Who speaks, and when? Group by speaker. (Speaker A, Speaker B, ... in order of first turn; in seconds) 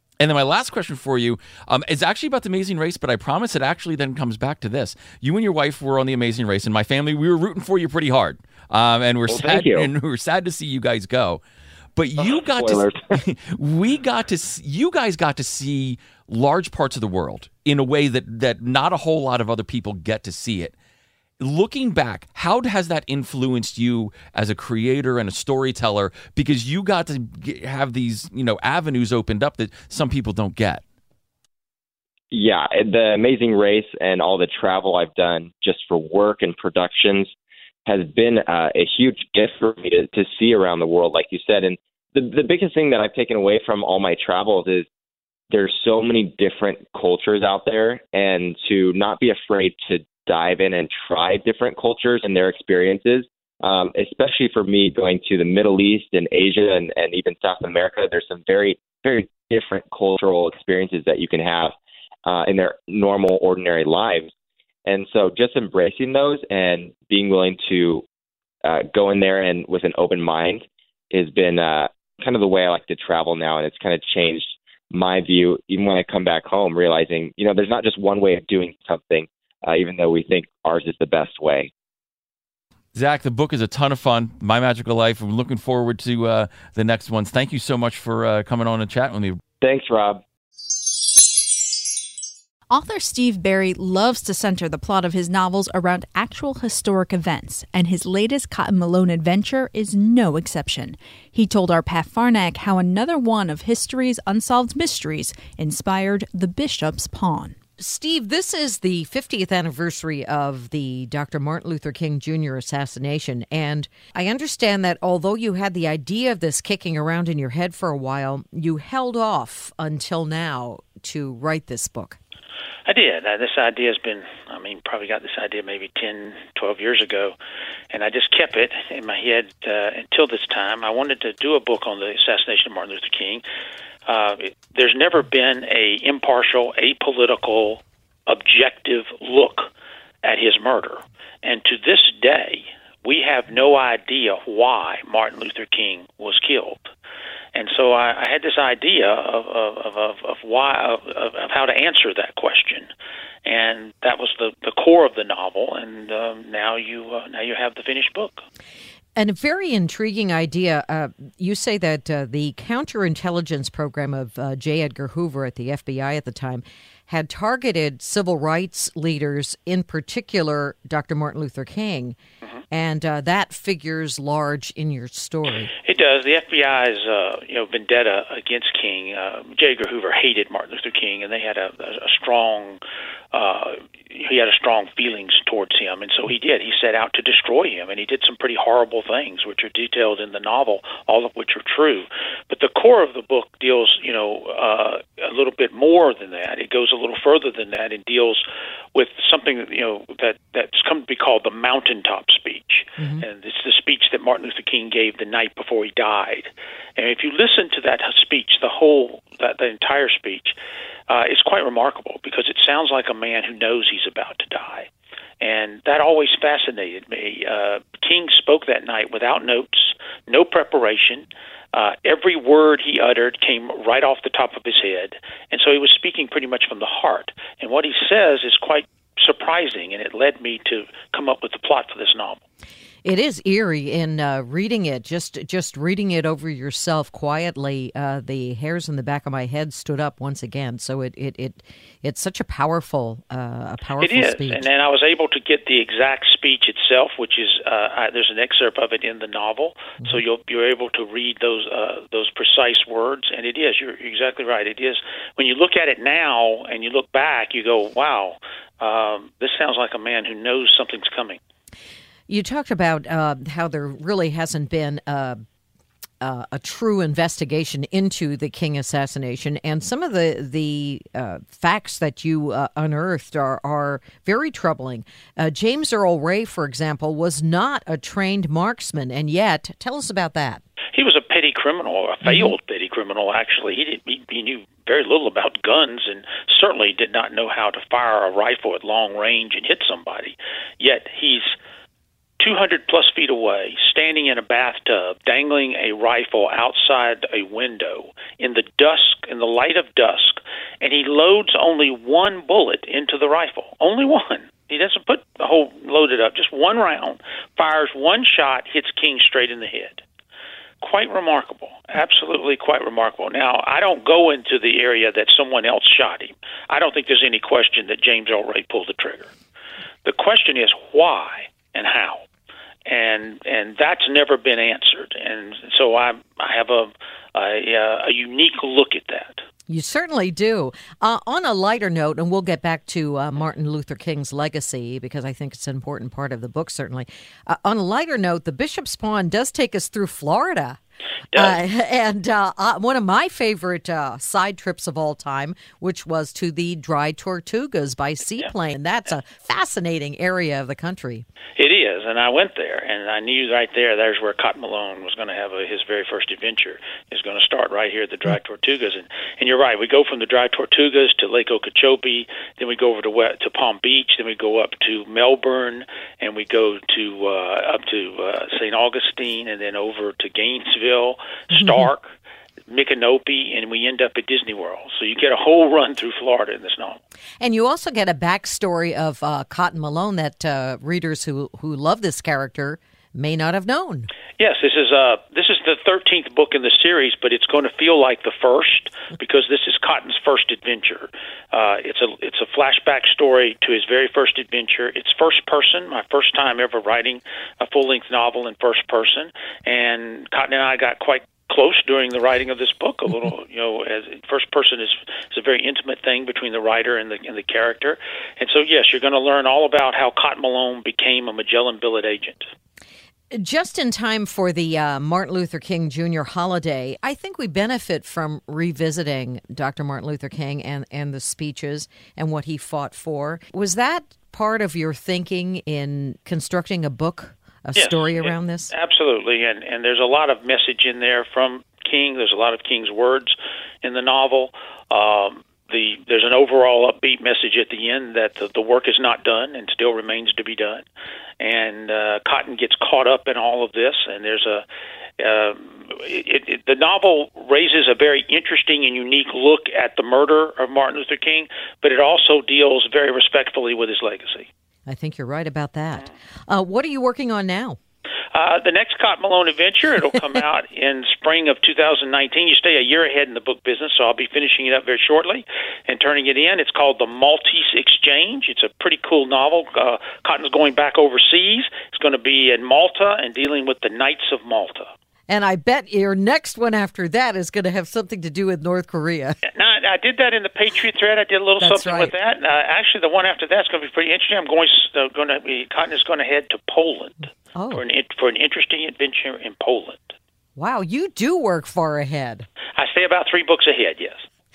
Speaker A: 0.2-11.4, 11.9-20.7, 21.4-30.8, 82.9-89.4
Speaker B: 9.3-9.9, 12.2-13.0, 32.3-37.3, 37.9-44.9, 45.5-61.7, 62.2-64.3, 64.8-68.0, 68.6-81.7, 89.6-90.2
Speaker C: 92.7-107.5
Speaker D: 107.8-122.2, 159.2-172.2, 172.7-175.7, 203.0-203.2, 233.0-244.7, 262.3-265.4, 266.2-280.6, 282.2-282.5, 329.7-340.8, 341.3-351.2, 371.5-371.8, 377.4-384.1, 413.3-428.7, 454.9-457.8, 475.3-479.4, 481.6-482.1, 487.5-487.8, 490.6-492.5
Speaker E: 122.8-127.3, 127.9-133.4, 134.1-146.9, 147.5-152.9, 153.4-158.4, 175.8-182.8, 183.3-198.4, 198.9-210.5, 211.1-214.9, 215.4-232.4, 244.0-261.4, 280.9-291.5, 292.4-310.0, 310.8-319.3, 320.0-322.2, 322.9-329.4, 351.6-372.1, 372.7-377.0, 384.4-412.5, 427.7-440.9, 441.4-444.6, 445.2-454.5, 458.3-474.9, 479.5-490.1, 492.8-494.2